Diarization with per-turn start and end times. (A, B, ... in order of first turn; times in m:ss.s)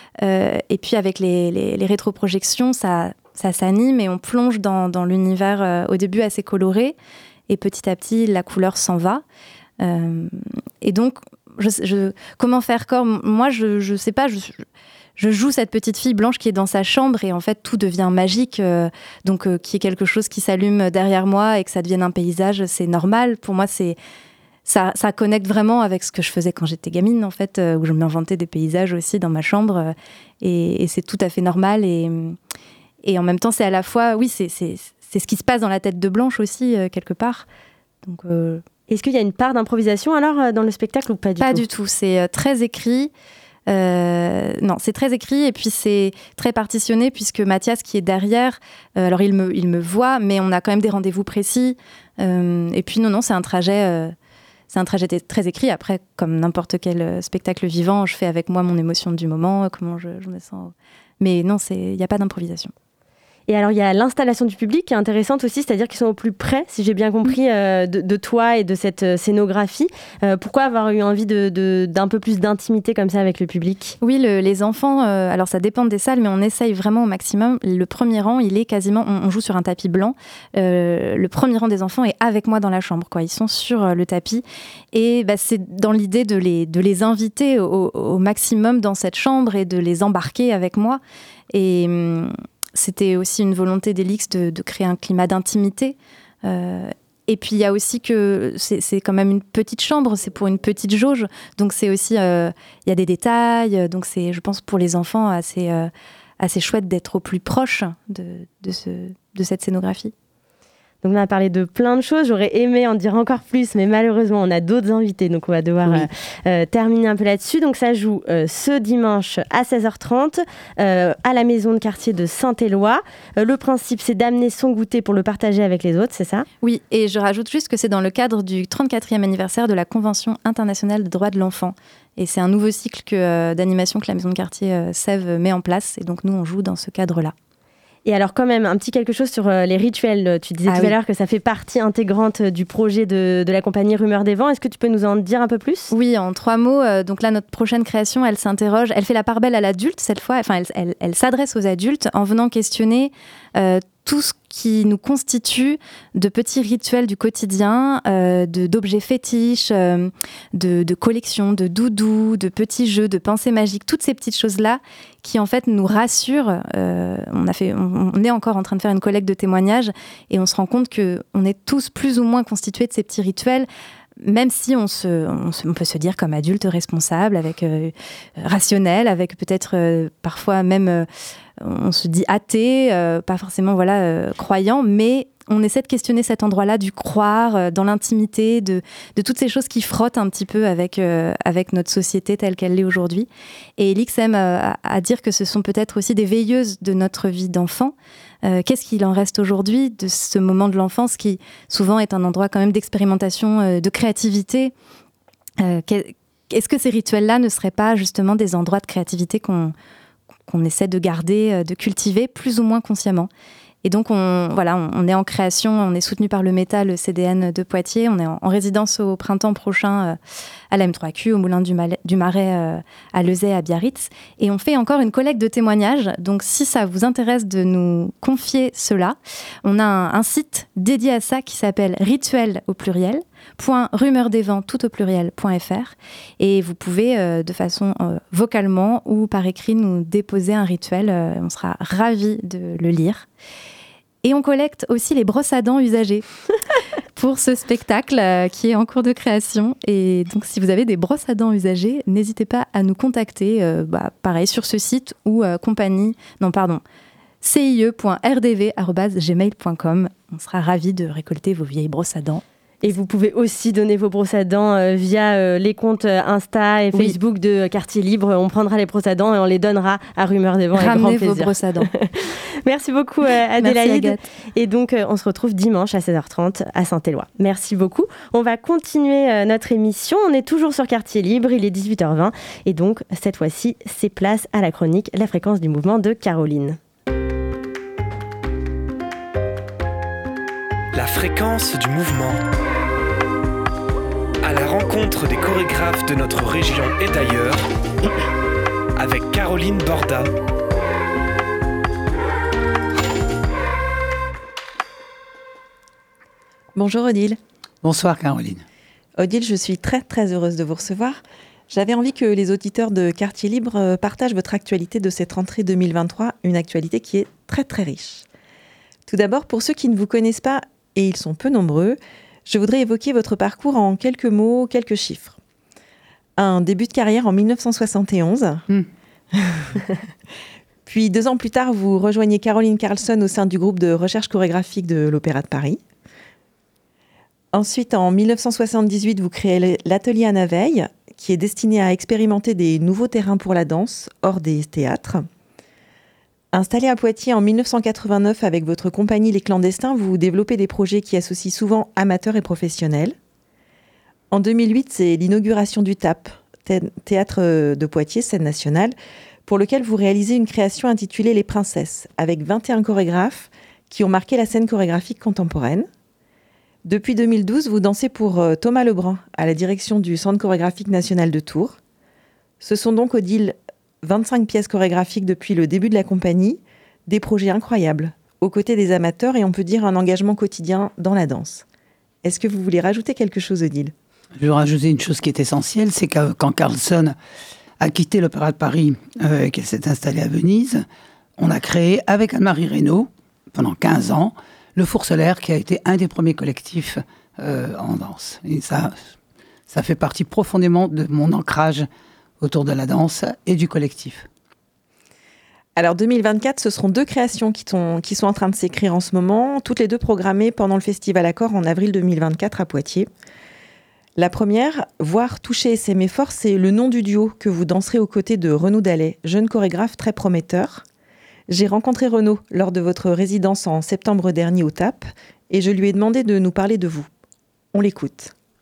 0:00.2-0:06.9 A
0:07.5-0:09.2 A
0:09.8-0:14.6 A
0:15.2-0:24.0 A
0:24.6-0:32.4 A
0:33.0-0:37.4 A
0:38.0-0:38.6 A
0:38.9-0:41.6 B
0:41.4-0:43.1 A
0:43.7-0:54.1 A
0:54.7-1:02.7 A
1:03.5-1:14.0 B
1:14.0-1:50.1 A
1:51.0-2:06.4 B
2:06.6-2:17.3 A
2:18.0-2:25.9 B
2:20.7-2:20.9 A
2:25.9-2:53.7 A
2:54.2-3:01.1 A
3:01.6-3:24.7 A
3:25.6-3:29.7 A
3:30.5-3:33.3 A
3:33.8-3:40.2 A
3:40.7-4:03.3 A
4:04.2-4:06.2 A
4:07.1-4:16.8 A
4:17.4-4:22.4 A
4:22.8-4:46.8 B
4:30.7-4:31.9 A
4:33.6-4:34.2 A
4:50.9-4:52.4 C
4:54.4-4:57.6 C
4:59.0-5:00.3 C
5:06.7-5:07.4 D
5:07.8-5:08.6 E
5:09.2-5:18.2 D
5:19.1-5:25.4 D
5:26.4-5:28.6 D
5:29.3-5:29.6 D
5:30.8-5:35.8 D
5:37.5-5:45.3 D
5:46.5-5:53.1 D
5:54.3-5:58.9 D
5:59.5-6:05.9 D
6:06.8-6:11.8 D
6:12.6-6:21.6 D
6:22.2-6:23.9 D
6:24.4-6:27.2 E
6:27.8-6:30.8 E
6:31.4-6:39.0 E
6:39.7-6:41.9 E
6:42.4-6:44.3 E
6:45.8-6:53.1 D
6:54.2-7:00.8 D
7:01.5-7:07.1 D
7:07.7-7:08.3 D